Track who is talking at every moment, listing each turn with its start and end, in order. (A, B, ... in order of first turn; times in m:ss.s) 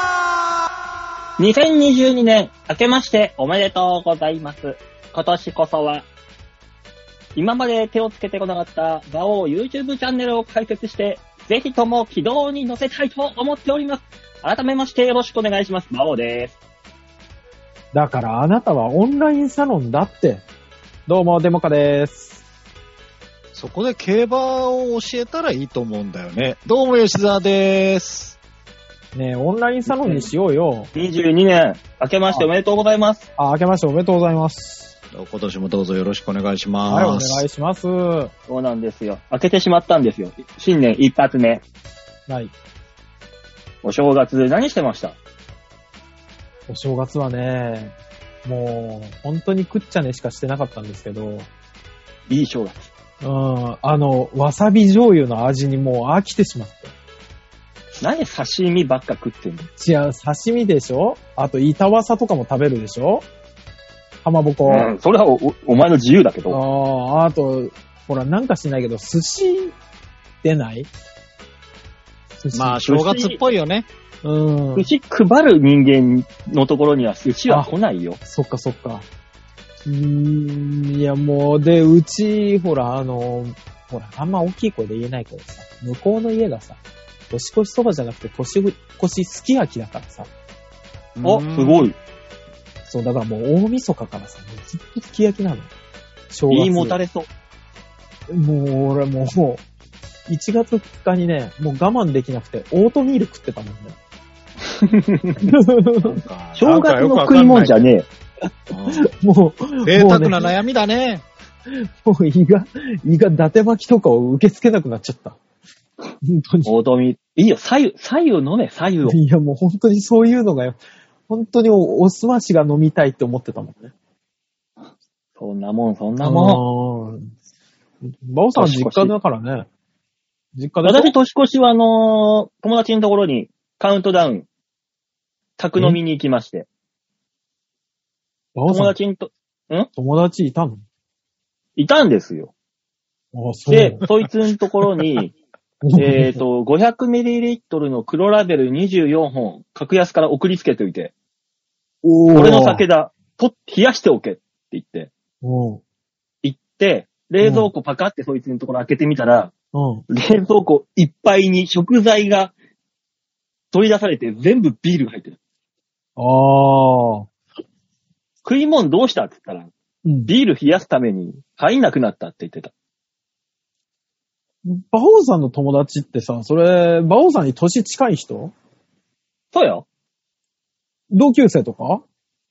0:01.4-0:06.1 A
0:07.4-0:16.6 A
0:17.9-0:20.4 B
0:21.1-0:22.4 B
0:23.5-0:28.4 C
0:29.1-0:30.9 B
0:30.0-0:30.3 A
0:31.0-0:33.2 A
0:33.4-0:34.9 B
0:35.1-0:37.4 C
0:36.9-0:38.3 B
0:38.5-0:41.6 A
0:42.3-0:42.5 B
0:43.8-0:45.2 A
0:46.7-0:47.9 B
0:48.4-0:51.5 B
0:52.3-0:52.9 A
0:53.2-0:56.9 B
0:58.0-0:59.7 A
0:59.8-1:03.3 B
1:04.2-1:04.9 B
1:04.6-1:06.6 A
1:06.5-1:09.8 B
1:10.4-1:10.9 B
1:12.4-1:12.9 B
1:12.5-1:13.9 C
1:12.9-1:13.4 A
1:14.2-1:14.9 B
1:14.8-1:18.2 A
1:18.2-1:19.0 B
1:19.8-1:26.8 B
1:27.3-1:30.3 B
1:31.2-1:31.9 C
1:31.2-1:32.0 A
1:32.9-1:35.7 B
1:36.3-1:37.0 B
1:36.5-1:37.3 A
1:38.3-1:39.6 B
1:40.3-1:44.0 B
1:44.7-1:45.4 A
1:45.4-1:46.2 B
1:46.0-1:47.9 C
1:46.6-1:48.1 A
1:48.7-1:49.1 C
1:48.9-1:50.5 B
1:49.8-1:51.2 C
1:51.8-1:55.4 B
1:56.2-1:56.7 B
1:56.6-1:59.2 A
1:59.0-2:03.9 B
2:05.4-2:06.6 A
2:06.2-2:07.3 B
2:08.0-2:09.7 B
2:08.6-2:09.1 A
2:10.5-2:11.1 B
2:10.8-2:14.5 A
2:15.6-2:16.7 A
2:18.6-2:19.0 B
2:18.7-2:19.9 A
2:20.0-2:20.8 B
2:21.8-2:22.5 A
2:23.3-2:24.0 B
2:23.7-2:25.3 A
2:25.8-2:26.4 B
2:26.0-2:31.1 A
2:32.0-2:32.8 B
2:32.4-2:35.1 A
2:35.4-2:35.8 B
2:36.4-2:39.5 A
2:37.4-2:37.7 B
2:39.7-2:40.0 B
2:40.1-2:42.5 A
2:43.7-2:45.4 A
2:46.2-2:47.3 B
2:48.4-2:49.7 A
2:50.0-2:50.3 B
2:50.3-2:52.7 A
2:54.6-2:58.5 B
2:59.5-2:59.8 A
3:01.1-3:02.0 B